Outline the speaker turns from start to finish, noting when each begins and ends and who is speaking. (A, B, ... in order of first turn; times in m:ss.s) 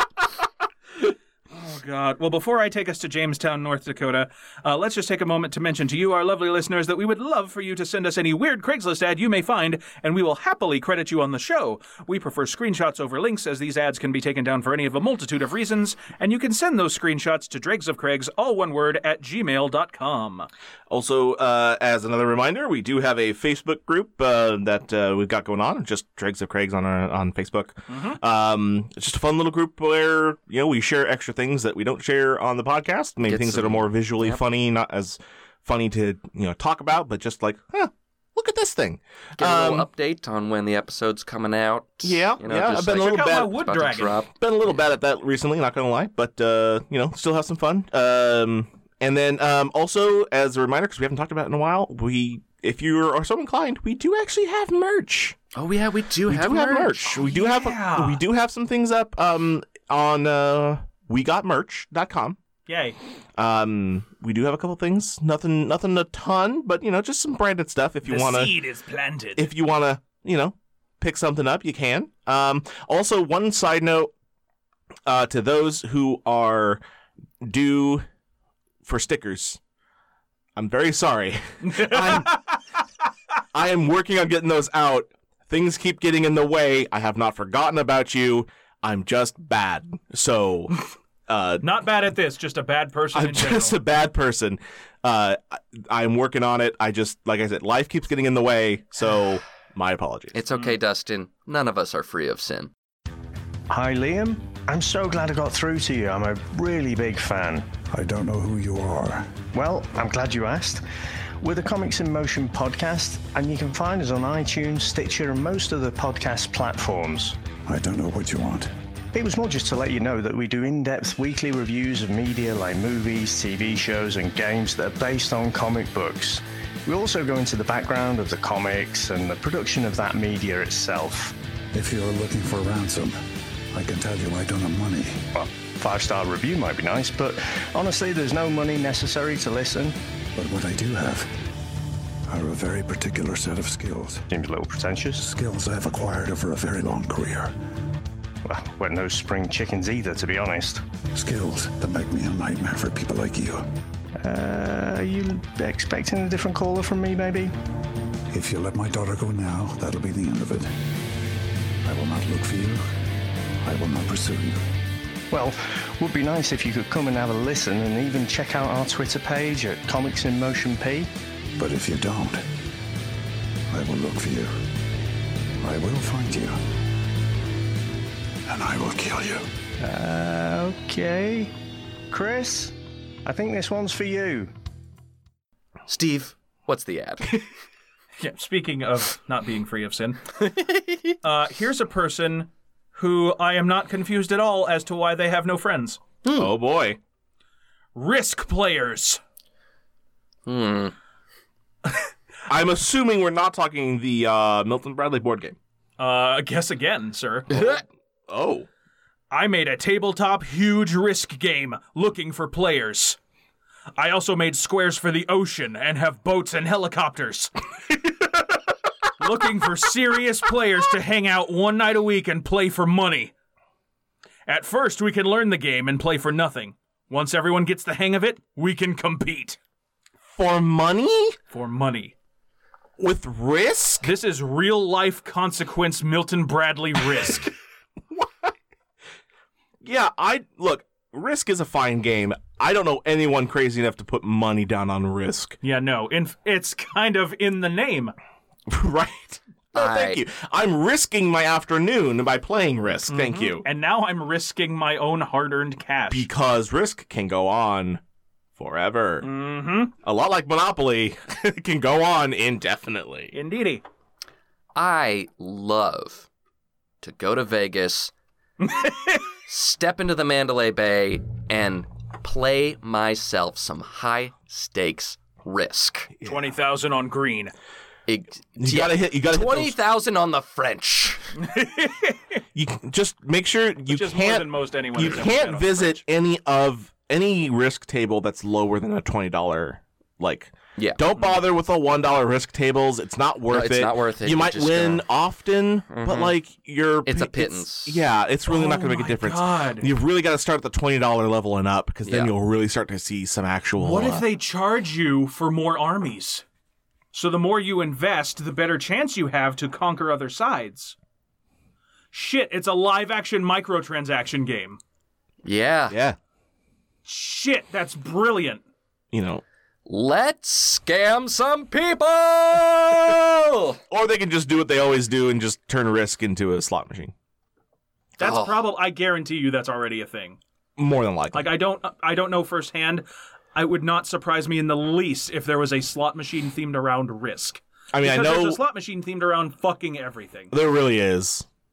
0:01.5-0:20.5 A
0:20.9-0:39.9 B
0:27.9-0:28.2 A
0:33.3-0:34.4 C
0:39.4-0:44.7 C
0:42.0-0:43.6 B
0:43.0-0:44.2 A
0:44.4-0:55.4 B
0:55.6-0:57.2 C
0:56.3-1:02.4 B
0:57.1-0:58.2 A
1:02.7-1:03.0 A
1:03.4-1:08.5 B
1:08.0-1:09.5 A
1:09.4-1:14.1 B
1:15.1-1:16.8 B
1:17.4-1:18.1 B
1:18.8-1:19.6 B
1:20.6-1:22.4 B
1:21.6-1:22.6 A
1:23.5-1:31.7 B
1:31.6-1:33.8 A
1:33.1-1:40.4 B
1:40.3-1:42.7 C
1:43.7-1:47.7 D
1:47.9-1:49.4 E
1:49.5-1:50.8 D
1:51.4-1:57.4 D
1:57.7-1:58.7 E
1:59.1-2:11.3 D
2:11.7-2:13.2 E
2:13.7-2:15.2 E
2:15.4-2:20.0 D
2:20.4-2:21.3 E
2:22.3-2:24.2 E
2:24.3-2:25.2 D
2:25.2-2:27.5 E
2:28.4-2:30.8 D
2:31.1-2:33.6 E
2:34.2-2:37.5 D
2:38.3-2:40.7 E
2:41.8-2:42.8 E
2:43.6-2:44.6 E
2:45.3-2:51.1 D
2:51.6-2:52.4 E
2:53.7-2:54.5 E
2:55.6-2:56.6 E
2:58.5-2:59.4 E
2:59.8-3:01.5 D
3:02.1-3:04.5 D
3:05.9-3:07.4 C
3:08.2-3:10.3 A
3:11.2-3:16.0 A
3:16.2-3:16.5 C
3:16.3-3:17.0 B
3:18.0-3:19.2 A
3:20.5-3:21.0 C
3:22.5-3:25.6 B
3:26.0-3:27.7 A
3:27.5-3:28.7 B
3:27.5-3:27.8 C
3:29.3-3:33.2 A
3:34.0-3:37.5 A
3:39.2-3:43.3 A
3:44.5-3:49.6 A
3:50.3-3:51.4 B
3:51.5-3:52.2 A
3:53.0-3:54.1 B
3:54.0-3:57.5 A
3:58.1-3:58.5 B
3:59.8-4:05.6 B
4:05.6-4:08.1 A
4:08.7-4:13.7 B
4:09.8-4:10.2 C
4:13.1-4:16.3 A
4:16.1-4:18.0 B
4:18.6-4:19.3 B
4:19.2-4:19.9 A
4:20.0-4:23.3 B
4:23.3-4:23.8 A
4:24.8-4:26.3 C
4:27.0-4:28.1 C
4:28.6-4:29.2 A
4:29.5-4:36.1 C
4:36.2-4:36.5 B
4:36.2-4:37.5 A
4:38.1-4:41.3 C
4:38.6-4:39.8 B
4:41.4-4:42.2 A
4:42.6-5:04.3 B
4:43.9-4:46.0 A
4:50.8-4:51.0 C
4:53.5-4:55.0 C
4:55.9-4:56.4 C
4:57.1-4:58.0 C
4:58.5-4:59.9 A
5:02.1-5:02.3 C
5:03.8-5:06.4 A
5:07.1-5:11.0 A
5:12.1-5:14.8 A
5:15.4-5:16.0 C
5:15.9-5:16.2 B
5:17.1-5:18.6 A
5:19.1-5:19.4 B
5:19.9-5:23.8 C
5:23.9-5:27.1 B
5:28.2-5:30.4 A
5:28.2-5:28.6 C
5:30.8-5:31.5 B
5:31.3-5:40.5 A
5:37.9-5:38.6 B
5:40.5-5:41.5 B